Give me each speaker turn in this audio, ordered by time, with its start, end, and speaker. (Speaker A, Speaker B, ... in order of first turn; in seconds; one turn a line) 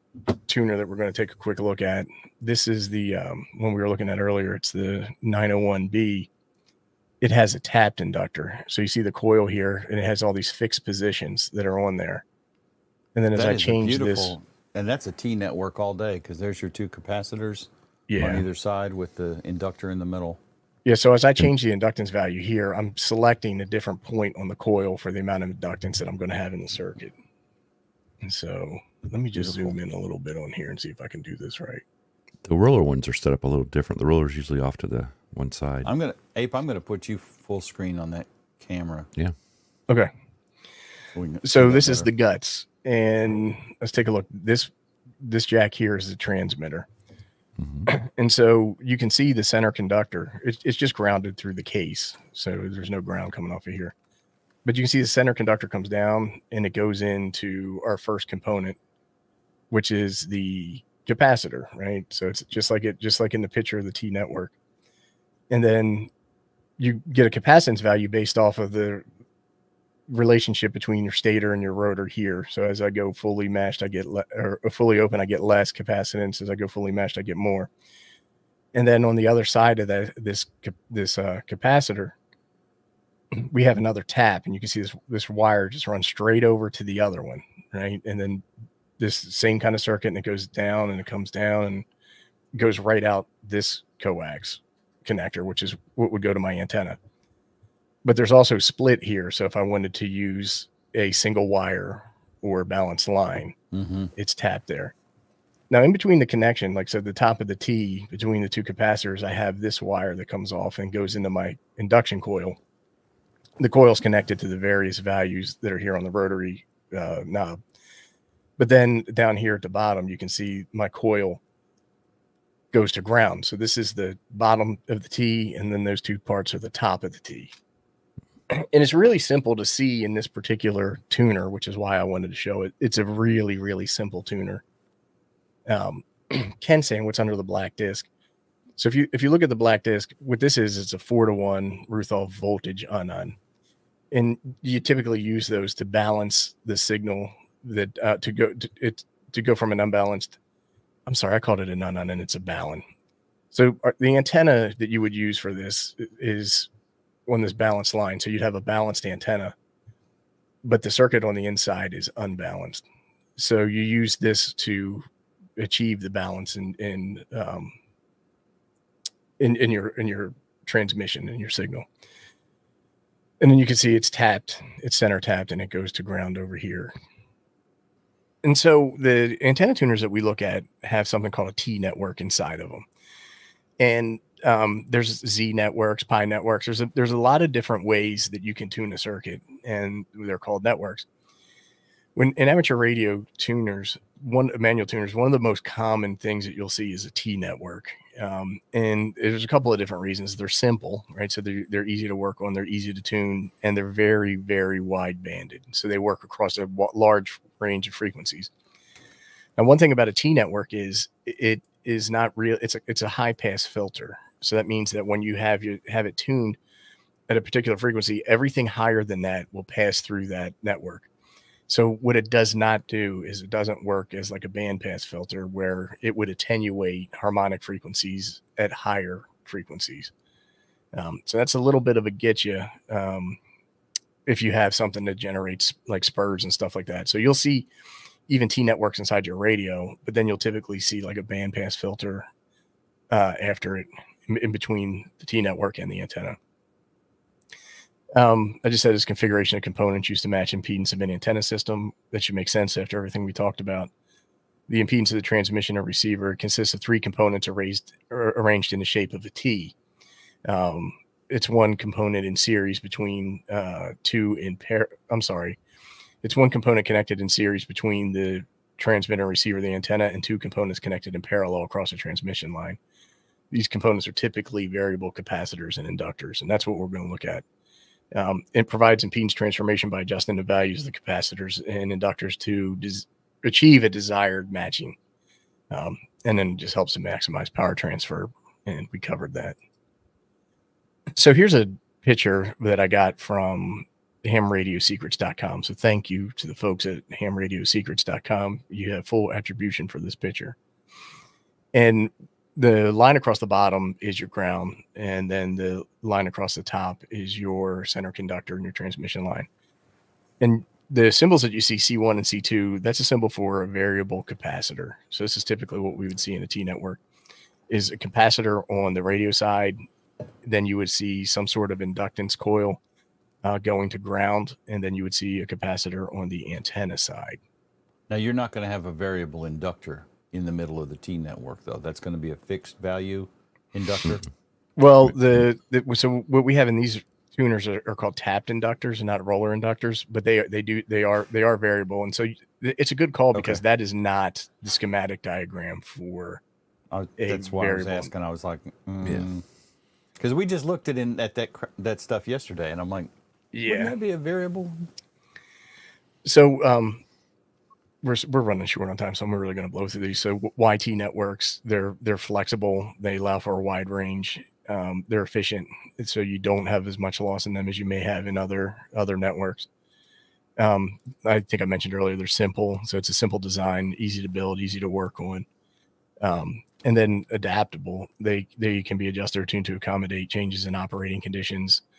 Speaker A: 0.5-6.3
Speaker A: 7.2-12.2
Speaker A: 13.2-14.4
Speaker B: 13.3-17.7
Speaker A: 18.1-18.4
Speaker B: 18.2-20.4
Speaker A: 20.9-27.1
Speaker A: 28.2-31.8
Speaker C: 32.4-35.9
Speaker B: 35.8-39.1
Speaker B: 41.1-42.1
Speaker A: 41.4-46.9
Speaker C: 47.6-47.9
Speaker A: 47.9-53.9
Speaker A: 54.6-58.8
Speaker A: 59.7-64.5
Speaker A: 65.5-66.1
Speaker A: 66.8-69.1
Speaker A: 70.1-77.7
Speaker A: 78.7-82.2
Speaker A: 83.3-88.4
Speaker A: 89.0-91.9
Speaker A: 92.5-97.0
Speaker A: 98.0-103.6
Speaker B: 103.7-104.1
Speaker A: 104.2-104.9
Speaker A: 105.7-112.6
Speaker A: 113.6-117.6
Speaker A: 118.6-121.4
Speaker A: 122.7-127.5
Speaker A: 128.5-134.6
Speaker A: 135.7-138.1
Speaker A: 138.8-143.4
Speaker A: 144.1-150.4
Speaker A: 151.1-152.8
Speaker A: 153.5-156.7
Speaker A: 157.3-159.6
Speaker A: 160.6-162.8
Speaker A: 163.4-165.1
Speaker A: 165.6-167.7
Speaker A: 169.4-171.9
Speaker A: 173.4-176.9
Speaker A: 178.4-182.9
Speaker A: 183.8-191.1
Speaker A: 192.2-208.5
Speaker A: 209.6-216.6
Speaker A: 217.3-221.1
Speaker A: 221.7-230.1
Speaker A: 230.9-233.4
Speaker A: 234.3-237.7
Speaker A: 238.3-242.3
Speaker A: 243.1-246.4
Speaker A: 248.2-253.9
Speaker A: 254.7-259.8
Speaker A: 260.5-265.6
Speaker A: 266.2-272.8
Speaker A: 273.5-277.4
Speaker A: 278.1-285.0
Speaker A: 285.7-289.6
Speaker A: 291.2-300.6
Speaker A: 301.7-309.5
Speaker A: 310.4-317.0
Speaker A: 317.7-319.8
Speaker A: 320.4-322.8
Speaker A: 323.4-327.4
Speaker B: 328.1-334.3
Speaker A: 334.8-346.4
Speaker B: 343.3-343.6
Speaker B: 346.9-349.4
Speaker A: 347.2-348.1
Speaker B: 350.2-353.1
Speaker A: 353.5-354.0
Speaker B: 353.6-354.9
Speaker A: 356.2-357.0
Speaker A: 358.0-369.7
Speaker A: 370.6-375.5
Speaker A: 376.2-381.8